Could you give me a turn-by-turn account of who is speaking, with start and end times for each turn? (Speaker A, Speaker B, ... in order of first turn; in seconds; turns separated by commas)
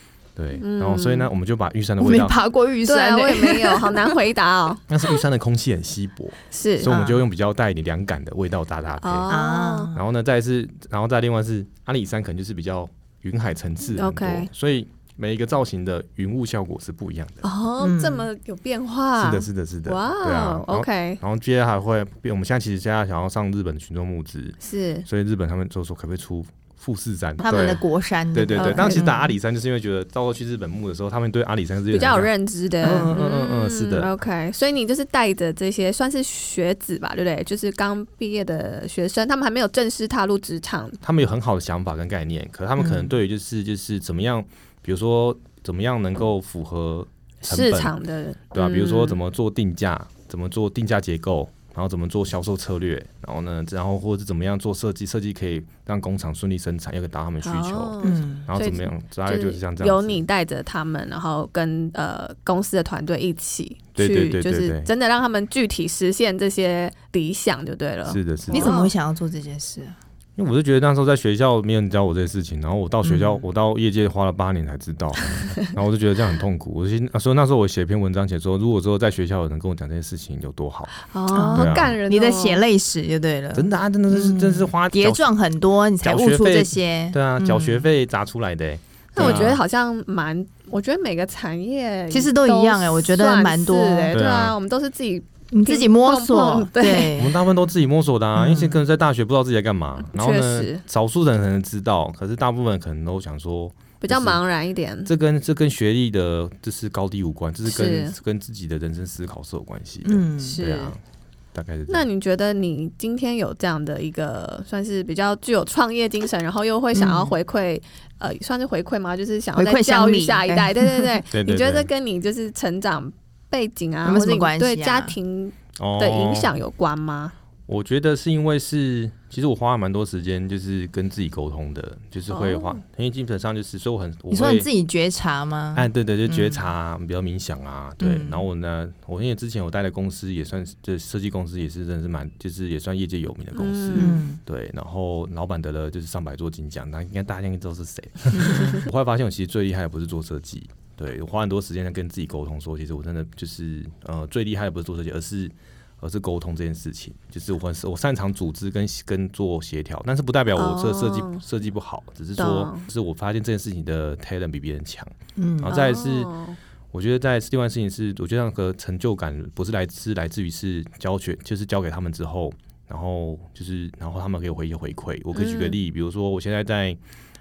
Speaker A: 0.3-2.4, Speaker B: 0.6-1.3, Speaker C: 2.0-4.0, Speaker B: 2.9-4.8, Speaker A: 4.9-9.3, Speaker B: 6.5-6.9, Speaker C: 6.8-7.2, Speaker B: 9.0-9.9, Speaker C: 9.3-10.0, Speaker A: 9.9-17.4, Speaker B: 13.9-14.5, Speaker B: 17.4-21.2, Speaker C: 17.8-18.3, Speaker A: 19.2-32.3, Speaker B: 24.6-25.1, Speaker C: 27.4-29.3, Speaker B: 28.5-29.1, Speaker B: 31.9-41.0, Speaker A: 32.8-34.1, Speaker A: 41.0-47.9, Speaker C: 42.8-43.1, Speaker B: 47.4-49.2, Speaker A: 48.5-57.9, Speaker B: 57.4-68.9, Speaker C: 58.0-58.5, Speaker A: 58.4-60.2, Speaker A: 64.0-64.9, Speaker A: 68.1-68.7, Speaker C: 68.5-69.9, Speaker A: 70.4-81.0, Speaker C: 73.0-73.4, Speaker B: 81.0-82.6, Speaker C: 81.3-87.9, Speaker A: 81.5-82.0, Speaker A: 83.5-85.3, Speaker A: 86.0-89.6, Speaker B: 89.1-97.2, Speaker C: 89.2-89.5, Speaker C: 92.1-94.1, Speaker A: 94.1-94.5, Speaker C: 95.5-97.4, Speaker A: 97.2-104.4, Speaker C: 98.3-98.8, Speaker B: 100.1-100.8, Speaker B: 104.0-105.1, Speaker A: 105.0-111.0, Speaker B: 107.7-108.1, Speaker C: 110.0-110.6, Speaker B: 110.4-110.9, Speaker A: 111.5-112.0, Speaker B: 111.9-127.3, Speaker C: 116.9-117.3, Speaker C: 119.5-121.1, Speaker A: 121.3-121.9, Speaker C: 124.0-125.1, Speaker A: 125.8-126.5, Speaker A: 127.7-134.7, Speaker B: 132.3-132.8, Speaker C: 134.3-136.7, Speaker A: 135.7-166.3, Speaker C: 138.0-138.4, Speaker B: 143.5-144.2, Speaker C: 143.9-144.4, Speaker C: 148.3-148.8, Speaker B: 160.5-161.4, Speaker B: 162.4-162.8, Speaker C: 165.4-165.7, Speaker B: 165.7-166.6, Speaker A: 166.9-177.0, Speaker B: 175.3-175.8